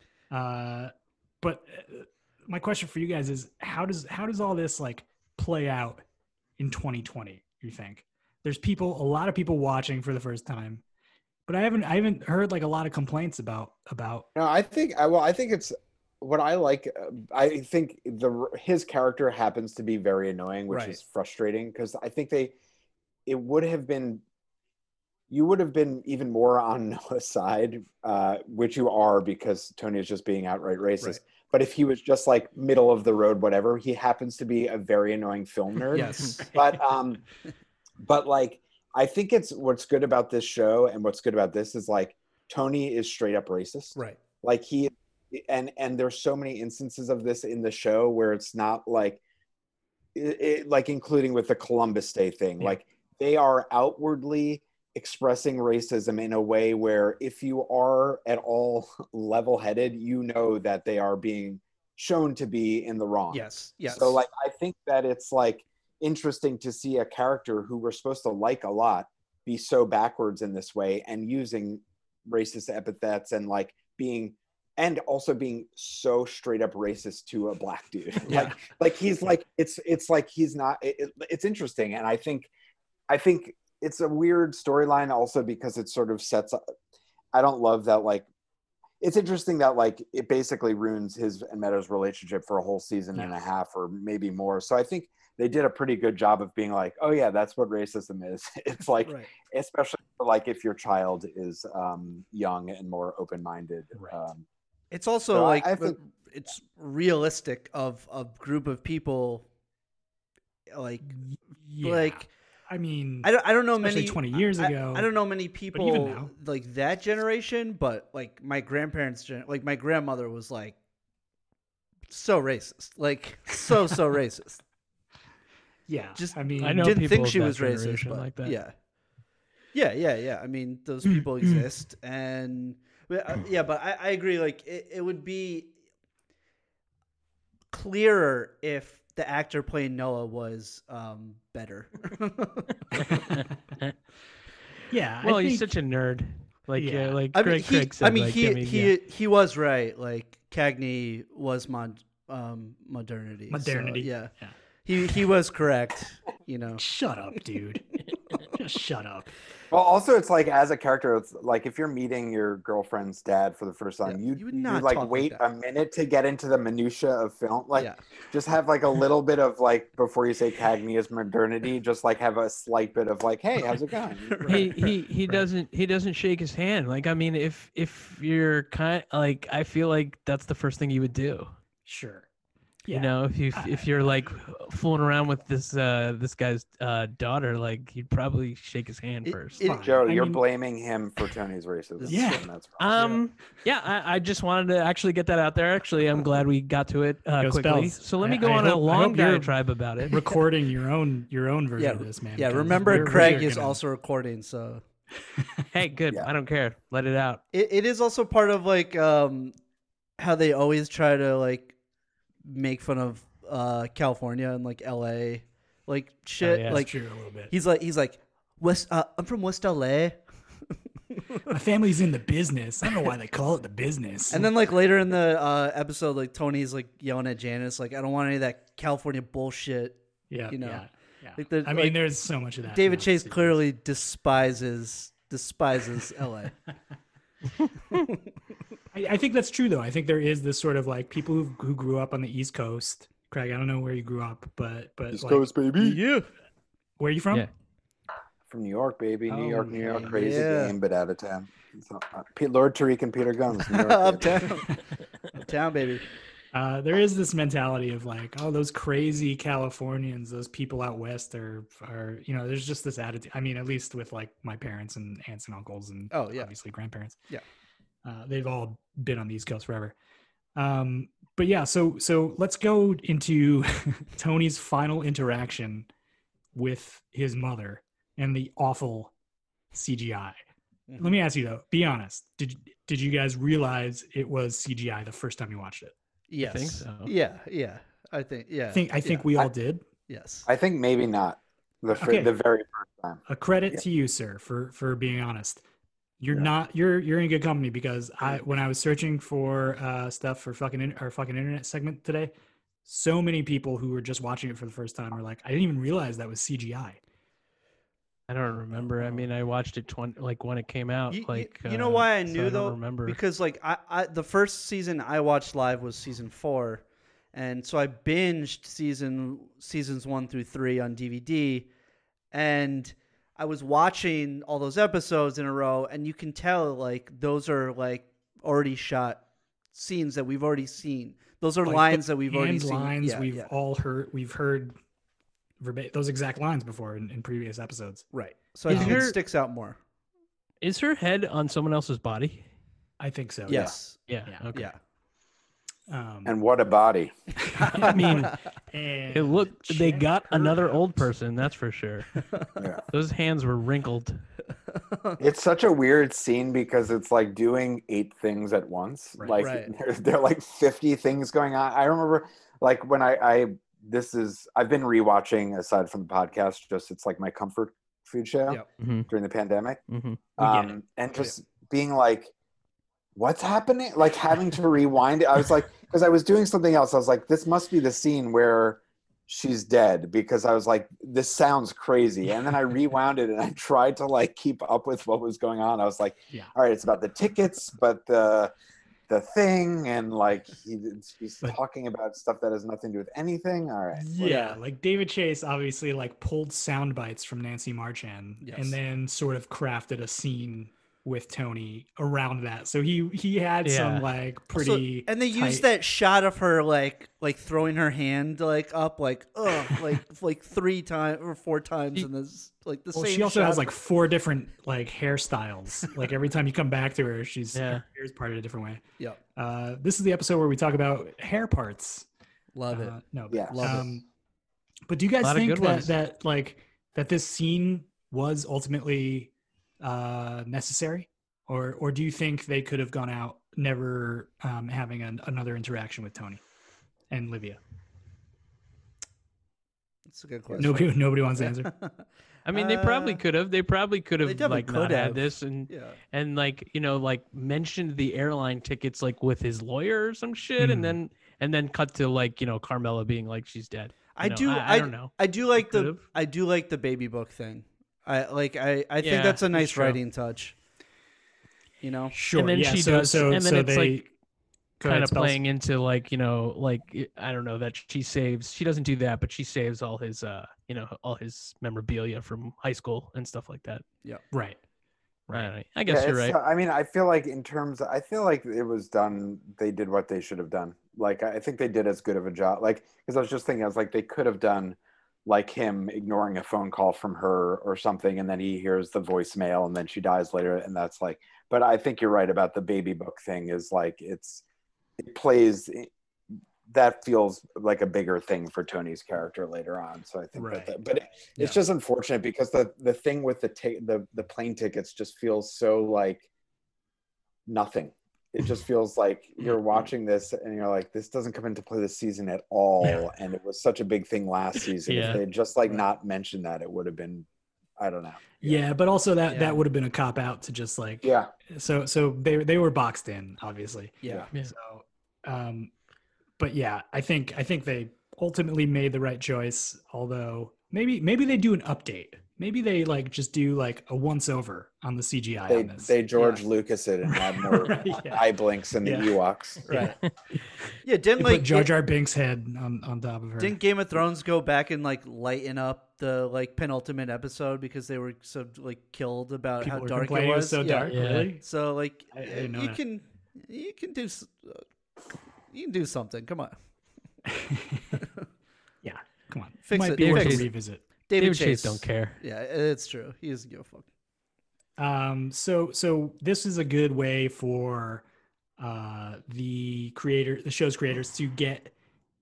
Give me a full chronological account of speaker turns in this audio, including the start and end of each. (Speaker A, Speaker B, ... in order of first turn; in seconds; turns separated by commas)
Speaker A: 0.3-6.0, Speaker A: 6.6-10.8, Speaker A: 11.5-14.3, Speaker B: 14.3-22.5, Speaker C: 20.7-21.0, Speaker B: 23.2-24.2, Speaker B: 25.3-37.2, Speaker C: 35.9-36.4, Speaker A: 36.4-36.8, Speaker B: 38.0-49.2, Speaker B: 50.1-82.5, Speaker C: 63.3-64.2, Speaker C: 78.3-78.5, Speaker B: 83.1-86.6, Speaker B: 87.3-88.2, Speaker B: 89.0-104.4, Speaker C: 99.0-99.3, Speaker C: 104.9-109.4, Speaker B: 105.3-106.0, Speaker C: 110.7-111.2, Speaker A: 111.1-115.1, Speaker C: 111.8-112.3, Speaker C: 113.2-120.8, Speaker A: 115.7-116.3, Speaker C: 122.1-124.6, Speaker A: 125.9-127.0, Speaker C: 126.2-128.7, Speaker D: 126.6-128.6, Speaker C: 129.7-135.7, Speaker A: 131.0-131.7, Speaker C: 137.7-143.0, Speaker A: 142.9-143.4, Speaker D: 143.2-143.9, Speaker A: 144.9-145.7, Speaker D: 145.2-148.9, Speaker A: 146.8-147.2, Speaker C: 147.3-154.3, Speaker A: 153.5-154.5, Speaker C: 154.8-156.8, Speaker A: 156.8-159.3, Speaker B: 159.7-174.6, Speaker C: 164.1-165.4, Speaker C: 167.7-168.0, Speaker C: 174.3-174.9, Speaker D: 174.5-181.5, Speaker A: 181.8-182.3, Speaker A: 182.8-184.0, Speaker D: 182.9-189.6, Speaker A: 189.6-190.4, Speaker B: 189.8-192.8, Speaker C: 192.0-192.4, Speaker A: 192.1-192.5, Speaker D: 192.8-200.2, Speaker A: 197.4-199.5, Speaker A: 200.0-203.8, Speaker C: 201.8-204.8, Speaker D: 202.7-203.4, Speaker A: 205.4-205.6, Speaker D: 205.7-207.4, Speaker C: 207.5-209.5, Speaker C: 210.2-211.7, Speaker C: 212.4-216.9, Speaker D: 216.4-216.9, Speaker A: 216.7-217.5, Speaker C: 217.5-220.2, Speaker C: 221.1-221.5, Speaker A: 221.5-224.5, Speaker C: 224.3-230.8, Speaker A: 230.3-233.6, Speaker C: 231.4-232.0, Speaker C: 232.7-236.5, Speaker C: 237.9-238.2, Speaker A: 238.9-245.5, Speaker B: 245.1-246.0, Speaker C: 245.8-246.3, Speaker A: 247.0-247.5, Speaker B: 248.5-254.5, Speaker A: 249.3-250.2, Speaker C: 249.8-250.7, Speaker C: 253.7-254.7, Speaker C: 255.3-256.0, Speaker A: 256.5-267.2, Speaker C: 266.1-266.5, Speaker A: 268.0-269.9, Speaker A: 270.6-275.9, Speaker A: 276.5-279.1, Speaker A: 279.7-280.4, Speaker C: 280.9-281.2, Speaker A: 281.0-285.9, Speaker C: 286.3-289.5, Speaker D: 286.4-287.1, Speaker A: 288.7-289.8, Speaker C: 290.1-290.5, Speaker B: 290.4-293.8, Speaker A: 291.9-292.3, Speaker A: 293.3-295.6, Speaker A: 296.2-302.3, Speaker A: 302.8-307.0, Speaker D: 308.3-313.2, Speaker C: 309.0-309.2, Speaker C: 311.1-321.7, Speaker C: 322.3-333.5, Speaker A: 331.6-334.8, Speaker A: 335.6-338.1, Speaker C: 338.1-339.8, Speaker A: 338.7-339.1, Speaker D: 338.7-339.1, Speaker D: 340.6-342.4, Speaker A: 343.0-343.7, Speaker C: 343.5-344.0, Speaker B: 343.5-343.7, Speaker D: 344.1-344.7, Speaker A: 345.9-346.3, Speaker B: 346.2-347.1, Speaker A: 347.4-350.8, Speaker C: 347.6-348.3, Speaker D: 347.7-348.4, Speaker D: 349.1-352.2, Speaker D: 352.9-354.2, Speaker C: 354.9-355.2, Speaker B: 355.2-369.8, Speaker A: 359.2-359.4, Speaker C: 359.4-359.7, Speaker D: 368.8-369.1, Speaker D: 369.9-370.7, Speaker B: 370.4-372.3, Speaker B: 373.1-388.5, Speaker B: 389.1-394.4, Speaker A: 393.9-405.6, Speaker C: 394.2-394.6, Speaker C: 398.4-398.7, Speaker D: 403.6-404.1, Speaker C: 404.5-413.7, Speaker A: 412.9-418.8, Speaker D: 417.5-417.8, Speaker A: 419.4-422.1, Speaker C: 422.5-423.0, Speaker A: 422.7-424.1, Speaker B: 423.3-423.8, Speaker C: 423.5-424.0, Speaker A: 424.9-436.4, Speaker D: 425.2-425.9, Speaker A: 437.1-437.6, Speaker C: 440.1-443.2, Speaker A: 440.6-441.7, Speaker D: 442.4-456.0, Speaker C: 444.2-446.0, Speaker A: 450.6-451.0, Speaker C: 454.1-460.5, Speaker D: 459.0-460.0, Speaker C: 461.8-462.1, Speaker A: 462.1-464.1, Speaker D: 462.3-464.1, Speaker A: 464.8-465.4, Speaker D: 464.8-473.8, Speaker A: 474.3-474.6, Speaker D: 475.3-476.4, Speaker B: 475.9-494.4, Speaker B: 495.0-495.9, Speaker B: 496.7-506.2, Speaker A: 500.4-500.7, Speaker B: 507.5-517.2, Speaker D: 514.8-515.2, Speaker B: 517.8-518.6, Speaker A: 518.4-525.7, Speaker C: 519.3-519.6, Speaker B: 521.0-521.3, Speaker A: 526.4-535.9, Speaker B: 535.5-539.9, Speaker C: 536.2-536.4, Speaker A: 537.0-538.3, Speaker A: 538.8-539.1, Speaker A: 539.6-539.9, Speaker C: 539.7-540.0, Speaker C: 540.8-541.7, Speaker A: 541.2-543.6, Speaker C: 543.4-554.6, Speaker A: 549.6-551.4, Speaker D: 550.9-551.4, Speaker A: 552.1-552.8, Speaker C: 555.5-556.5, Speaker A: 557.3-558.0, Speaker C: 557.9-558.2, Speaker A: 558.8-560.8, Speaker C: 559.7-560.5, Speaker D: 560.0-560.5, Speaker C: 561.1-563.9, Speaker D: 561.2-562.2, Speaker A: 564.8-568.0, Speaker A: 568.6-571.7